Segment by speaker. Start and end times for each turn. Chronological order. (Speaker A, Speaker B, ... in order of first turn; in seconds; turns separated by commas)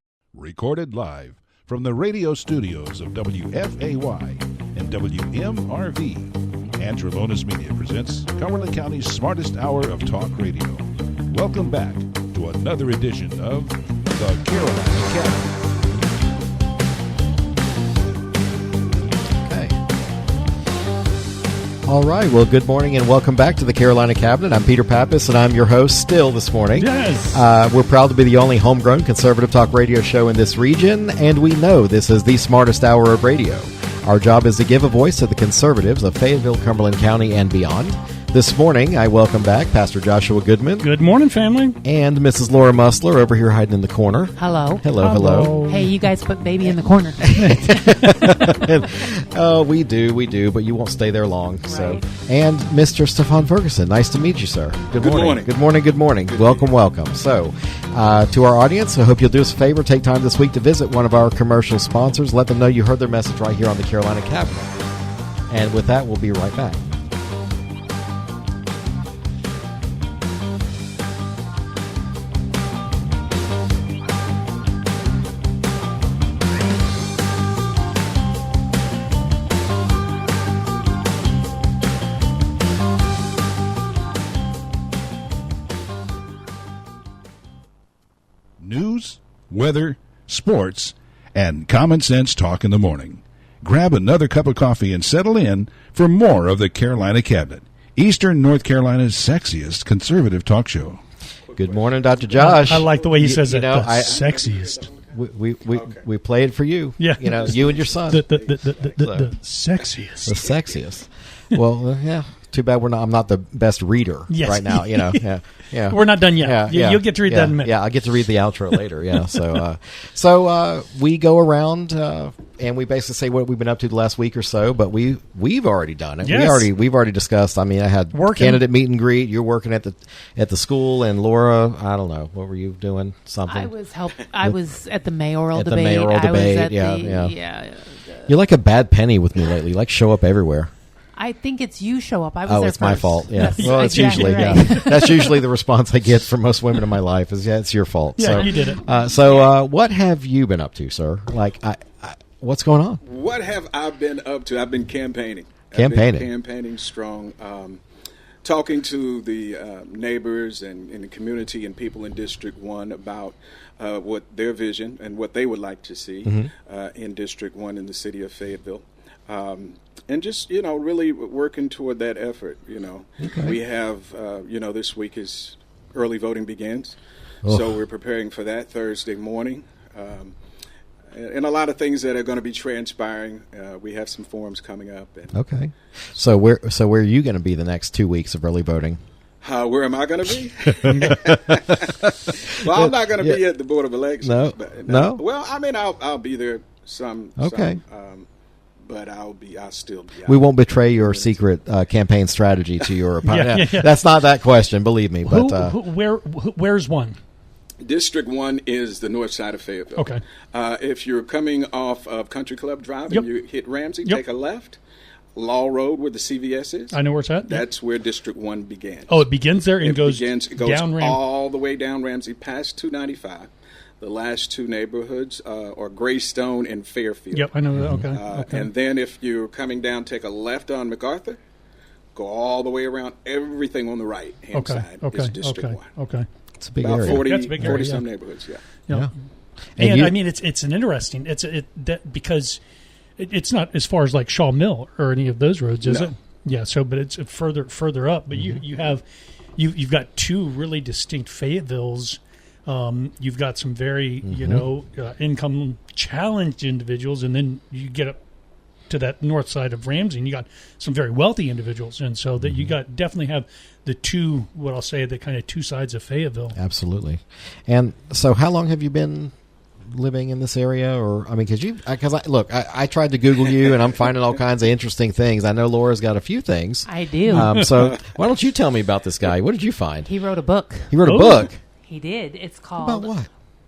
Speaker A: 0.3-15.5, Speaker B: 19.4-19.8, Speaker B: 21.9-40.9, Speaker C: 26.8-27.4, Speaker C: 40.8-41.8, Speaker B: 41.8-45.5, Speaker D: 44.4-44.9, Speaker C: 45.0-45.9, Speaker D: 45.5-48.0, Speaker B: 47.2-64.8, Speaker D: 51.6-52.1, Speaker E: 55.0-55.5, Speaker E: 56.3-56.7, Speaker B: 65.5-66.9, Speaker A: 88.6-101.0, Speaker E: 101.5-103.2, Speaker B: 101.6-104.3, Speaker C: 102.3-104.8, Speaker E: 104.0-105.1, Speaker B: 105.0-108.3, Speaker E: 105.7-106.0, Speaker C: 107.0-110.4, Speaker E: 107.2-109.0, Speaker B: 109.0-109.3, Speaker B: 110.2-133.7, Speaker C: 114.3-115.2, Speaker C: 115.9-117.8, Speaker C: 126.2-126.7, Speaker C: 128.1-128.6, Speaker D: 133.5-138.3, Speaker B: 134.2-134.6, Speaker B: 135.5-137.3, Speaker B: 138.3-140.7, Speaker D: 141.2-145.4, Speaker B: 142.4-153.0, Speaker C: 143.5-144.9, Speaker C: 148.2-148.8, Speaker D: 149.2-149.6, Speaker E: 153.0-157.8, Speaker B: 155.7-156.3, Speaker E: 158.4-180.3, Speaker B: 166.2-166.5, Speaker B: 173.2-173.6, Speaker B: 177.4-177.7, Speaker E: 181.1-185.3, Speaker B: 185.3-189.0, Speaker E: 189.4-198.3, Speaker B: 190.8-193.4, Speaker C: 190.9-191.2, Speaker B: 194.2-195.2, Speaker B: 197.4-197.8, Speaker E: 198.8-201.4, Speaker B: 200.2-205.8, Speaker C: 203.3-203.9, Speaker C: 205.3-207.2, Speaker E: 207.8-214.8, Speaker C: 210.0-210.2, Speaker E: 215.3-219.2, Speaker C: 216.9-217.6, Speaker C: 219.1-221.2, Speaker E: 219.8-223.5, Speaker E: 224.0-227.5, Speaker C: 227.3-228.7, Speaker B: 227.8-228.1, Speaker E: 228.1-231.4, Speaker E: 232.1-235.9, Speaker C: 234.5-236.3, Speaker B: 236.6-237.8, Speaker E: 236.8-238.7, Speaker C: 237.0-238.1, Speaker B: 239.8-240.2, Speaker C: 239.8-242.6, Speaker C: 243.2-249.0, Speaker E: 245.8-246.1, Speaker B: 248.3-248.6, Speaker C: 249.6-258.2, Speaker B: 254.2-254.7, Speaker C: 258.9-266.6, Speaker B: 262.4-262.8, Speaker B: 266.6-269.3, Speaker B: 269.9-280.1, Speaker D: 276.9-277.5, Speaker D: 280.1-283.2, Speaker B: 280.9-281.6, Speaker B: 282.8-283.3